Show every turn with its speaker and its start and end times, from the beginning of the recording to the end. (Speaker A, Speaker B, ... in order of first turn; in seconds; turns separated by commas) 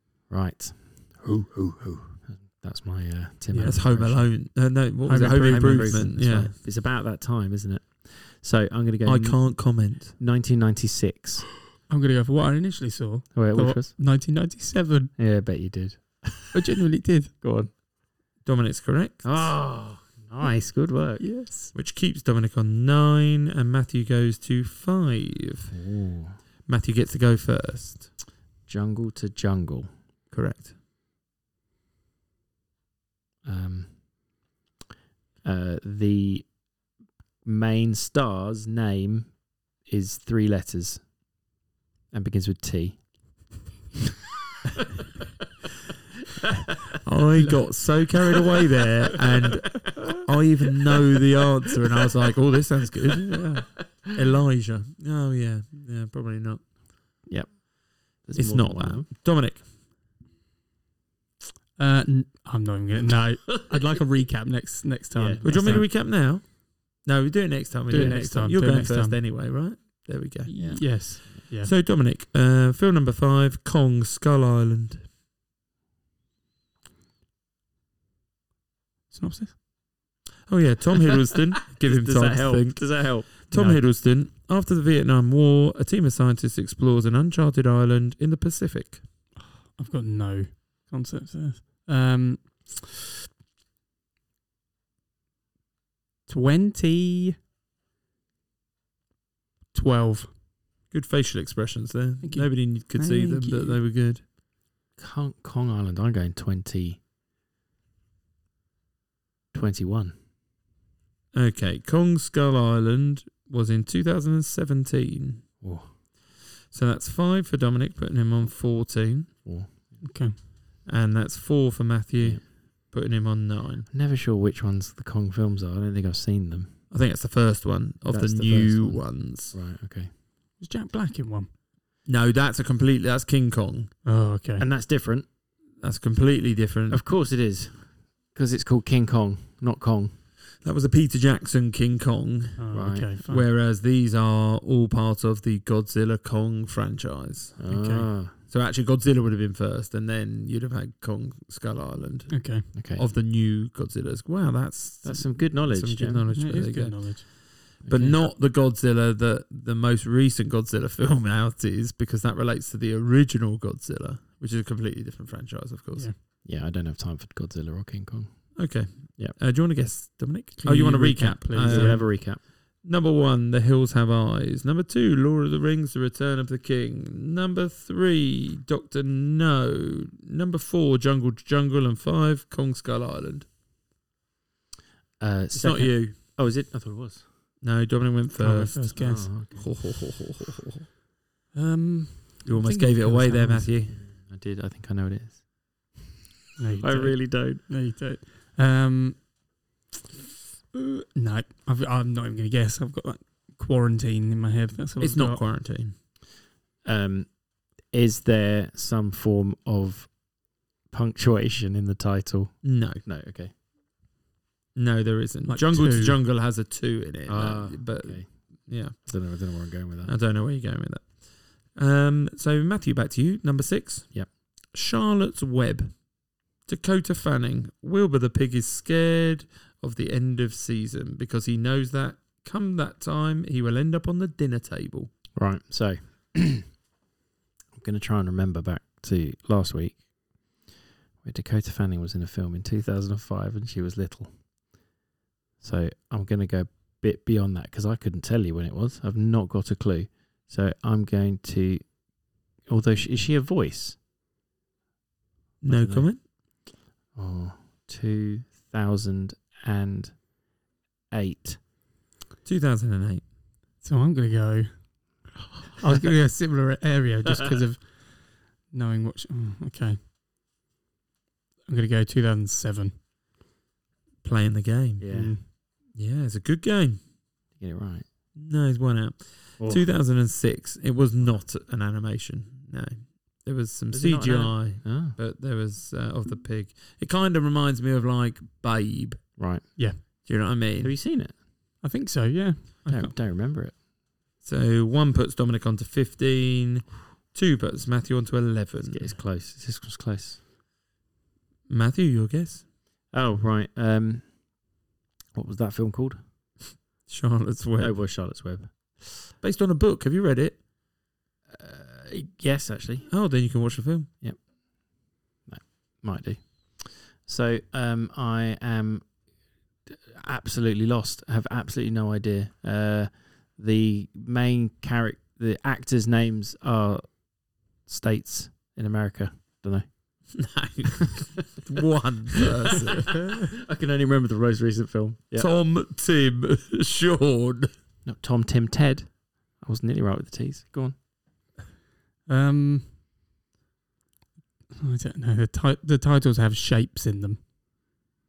Speaker A: 0.3-4.3, Speaker B: 3.5-3.8, Speaker C: 3.6-6.5, Speaker B: 5.0-6.1, Speaker A: 5.1-11.5, Speaker C: 9.0-10.1, Speaker B: 11.9-15.1, Speaker A: 13.3-13.9, Speaker A: 15.2-16.6, Speaker B: 16.5-17.3, Speaker A: 17.4-17.7, Speaker C: 18.4-19.5, Speaker A: 19.2-21.3, Speaker B: 21.2-21.7, Speaker C: 21.7-25.7, Speaker A: 25.7-26.4, Speaker C: 26.6-28.1, Speaker A: 28.7-29.9, Speaker C: 30.3-30.7, Speaker A: 33.4-34.2, Speaker A: 35.4-36.6, Speaker A: 37.4-41.1, Speaker A: 42.1-43.5, Speaker C: 47.0-56.7, Speaker A: 57.2-59.1, Speaker C: 58.3-59.6, Speaker B: 61.8-65.9, Speaker A: 65.1-65.9, Speaker C: 65.4-75.1, Speaker B: 67.9-69.2, Speaker B: 70.5-71.7, Speaker A: 70.5-71.4, Speaker B: 79.1-79.5, Speaker C: 80.5-89.0, Speaker A: 81.8-83.8, Speaker B: 89.4-92.9, Speaker B: 96.3-97.3, Speaker B: 99.7-100.3, Speaker C: 100.9-104.2, Speaker B: 102.2-103.8, Speaker A: 105.0-107.0, Speaker A: 109.5-110.1, Speaker C: 111.3-115.5, Speaker A: 115.6-115.9, Speaker C: 116.7-119.4, Speaker A: 119.4-120.0, Speaker B: 120.0-120.4, Speaker C: 120.8-123.9, Speaker A: 122.2-122.4, Speaker A: 123.9-126.8, Speaker C: 126.9-129.5, Speaker A: 128.1-130.1, Speaker B: 130.6-131.5, Speaker C: 132.1-133.9, Speaker B: 134.0-134.7, Speaker A: 134.6-135.3, Speaker C: 135.8-137.0, Speaker A: 136.9-140.2, Speaker C: 140.6-147.8, Speaker B: 142.6-143.5, Speaker A: 142.7-143.1, Speaker A: 147.6-148.3, Speaker B: 147.7-148.1, Speaker C: 148.4-166.1, Speaker B: 152.3-152.7, Speaker A: 152.7-153.1, Speaker A: 155.0-156.2, Speaker B: 156.3-157.3, Speaker A: 157.8-158.2, Speaker A: 166.4-169.4, Speaker C: 168.6-183.5, Speaker B: 170.6-172.1, Speaker A: 171.6-172.4, Speaker A: 185.2-187.2, Speaker C: 185.5-186.2, Speaker C: 187.6-190.9, Speaker B: 188.4-189.3, Speaker A: 188.9-189.7, Speaker B: 191.5-193.7, Speaker C: 192.4-194.0, Speaker A: 193.9-196.0, Speaker B: 196.6-199.3, Speaker A: 196.8-197.7, Speaker B: 200.7-205.4, Speaker C: 205.0-205.9, Speaker A: 206.8-210.2, Speaker A: 210.8-213.5, Speaker C: 212.6-213.0, Speaker C: 214.7-219.3, Speaker B: 215.5-216.2, Speaker A: 217.3-220.2, Speaker C: 220.1-226.1, Speaker C: 226.6-235.1, Speaker A: 235.3-236.7, Speaker A: 237.7-240.1, Speaker A: 241.2-244.4, Speaker A: 245.6-254.0, Speaker C: 255.6-256.2, Speaker A: 255.7-256.3, Speaker A: 257.1-260.3, Speaker A: 261.1-261.6, Speaker C: 262.4-263.2, Speaker B: 263.8-270.0, Speaker B: 271.6-272.9, Speaker C: 274.2-277.0, Speaker A: 275.0-275.4, Speaker B: 275.1-275.4, Speaker A: 277.6-278.1, Speaker C: 278.3-289.4, Speaker A: 279.6-279.9, Speaker A: 283.9-285.2, Speaker A: 289.4-290.2, Speaker B: 289.8-290.0, Speaker C: 290.2-291.0, Speaker A: 290.8-291.3, Speaker B: 291.8-293.1, Speaker A: 292.9-293.7, Speaker C: 294.4-299.1, Speaker A: 298.8-300.4, Speaker C: 301.7-302.6, Speaker A: 303.1-304.6, Speaker A: 305.3-306.2, Speaker C: 307.1-308.0, Speaker A: 307.8-309.2, Speaker C: 309.4-310.6, Speaker A: 311.5-313.1, Speaker C: 313.1-314.1, Speaker A: 314.2-319.2, Speaker A: 319.9-330.4, Speaker C: 330.3-333.2, Speaker A: 333.2-335.5, Speaker C: 335.4-337.7, Speaker A: 338.0-340.9, Speaker B: 342.3-343.0, Speaker B: 344.8-347.4